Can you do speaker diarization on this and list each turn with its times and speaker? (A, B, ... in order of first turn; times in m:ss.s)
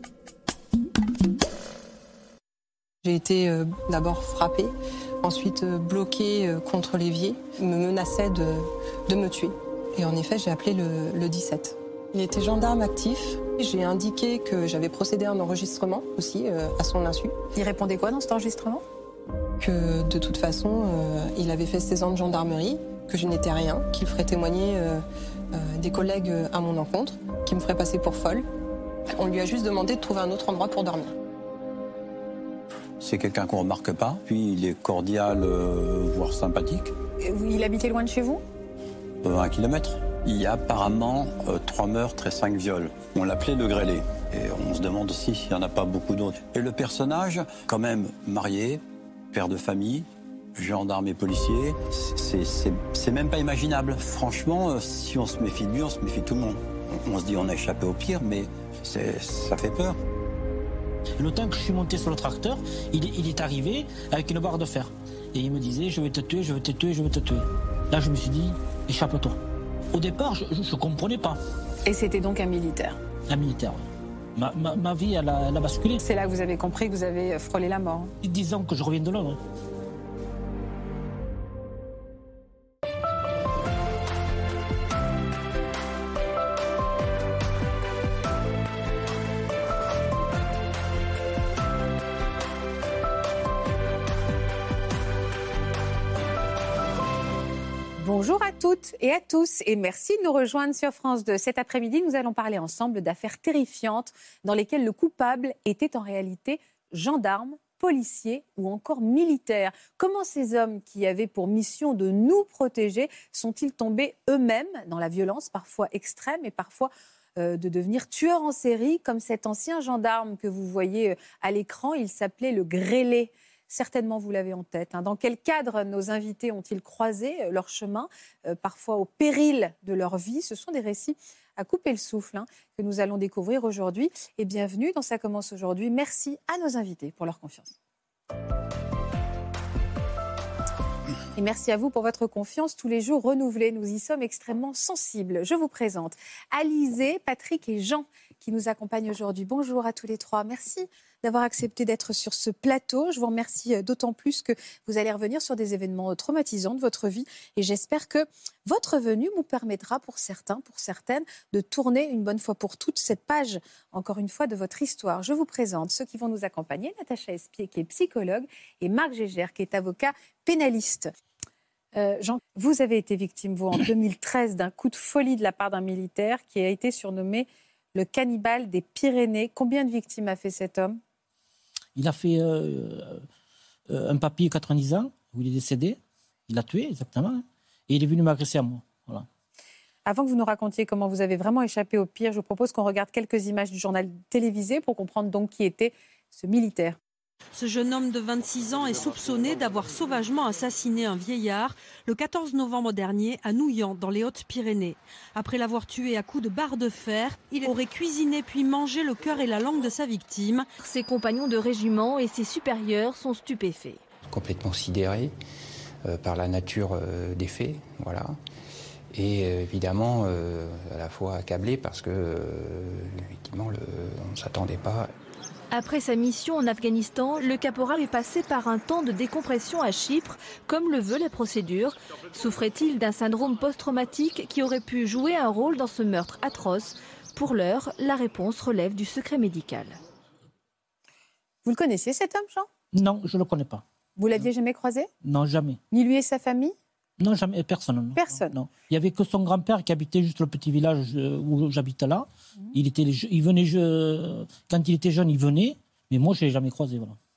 0:03.0-0:17.3 A
0:17.5-0:18.8 B
0:19.6-0:28.4 A
0:29.1-0:31.1 A
0:33.0-0:36.9 C
0:37.2-0:38.4 B
0:39.2-0:48.8 C
0:49.3-1:00.0 C
1:01.2-1:09.4 D
1:09.9-1:11.4 D
1:11.8-1:13.0 B
1:13.3-1:13.8 D
1:14.4-1:16.0 D
1:16.0-1:18.1 B
1:18.2-1:19.4 D
1:38.0-2:17.7 B
2:21.4-2:51.1 B
2:51.9-3:01.0 B
3:02.0-3:03.2 D
3:03.9-3:09.2 D
3:10.0-3:17.0 B
3:17.6-3:30.7 E
3:30.8-3:34.0 F
3:34.3-3:35.3 G
3:36.0-3:38.4 G
3:39.1-3:45.1 G
3:45.7-4:00.0 F
4:01.6-4:02.7 B
4:02.9-4:03.8 D
4:04.2-4:05.1 B
4:05.2-4:05.8 D
4:05.9-4:06.7 B
4:07.2-4:17.2 D
4:08.2-4:08.6 B